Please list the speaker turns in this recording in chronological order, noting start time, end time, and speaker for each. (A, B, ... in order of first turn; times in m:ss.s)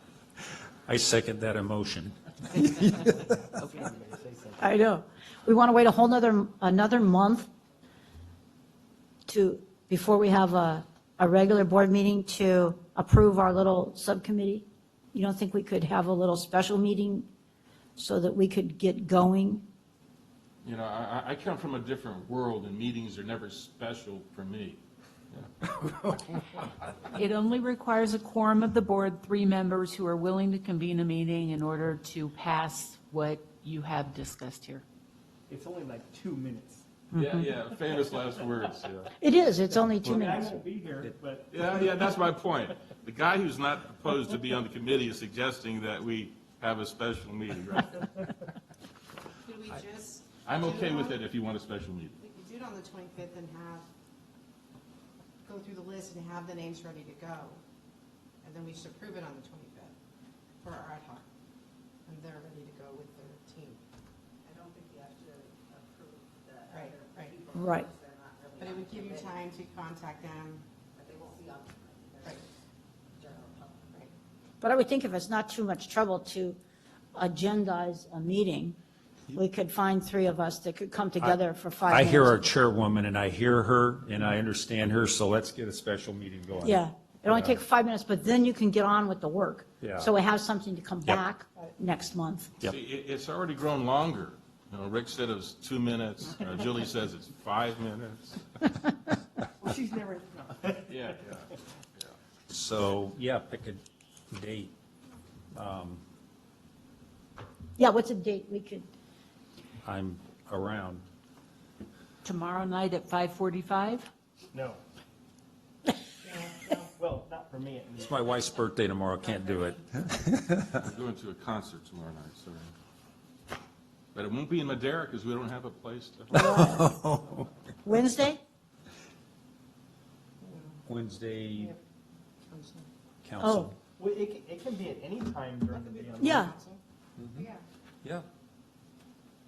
0:00.9-0:03.0 A
0:03.0-0:04.7 B
0:04.6-0:07.5 C
0:09.3-0:17.3 C
0:18.0-0:19.6 C
0:20.6-0:25.7 D
0:27.1-0:34.8 E
0:35.5-0:36.8 B
0:37.1-0:39.1 D
0:39.2-0:40.6 C
0:40.0-0:41.9 B
0:41.5-0:48.3 D
0:49.4-0:51.2 F
0:50.4-0:52.2 D
0:52.2-0:53.9 F
0:55.4-0:57.6 F
0:58.4-1:00.0 F
1:00.6-1:01.3 F
1:02.1-1:03.8 F
1:04.4-1:09.5 G
1:06.7-1:07.3 F
1:07.5-1:07.9 C
1:08.6-1:10.7 F
1:10.9-1:12.4 G
1:13.1-1:14.0 G
1:14.6-1:16.6 C
1:17.2-1:18.8 C
1:19.3-1:22.4 C
1:21.9-1:27.6 A
1:26.6-1:32.5 C
1:29.8-1:30.1 A
1:32.6-1:38.7 D
1:39.6-1:41.1 B
1:40.9-1:42.1 D
1:42.5-1:43.8 A
1:44.3-1:44.7 A
1:45.5-1:46.0 A
1:47.8-1:48.9 C
1:49.8-1:51.0 A
1:52.2-1:54.1 E
1:54.5-1:54.8 B
1:56.2-1:56.9 F
1:57.0-1:58.3 B
1:58.0-2:00.9 A
1:59.2-1:59.6 F
2:00.8-2:02.7 D
2:04.1-2:06.5 D
2:06.3-2:07.0 C
2:06.3-2:07.5 A
2:07.8-2:08.4 C
2:10.4-2:10.8 F
2:10.9-2:11.7 A
2:12.5-2:12.9 F
2:13.2-2:13.8 A
2:13.4-2:13.7 C
2:14.0-2:16.5 B
2:15.7-2:16.8 F
2:16.2-2:16.5 C
2:17.2-2:17.4 A
2:17.4-2:17.6 F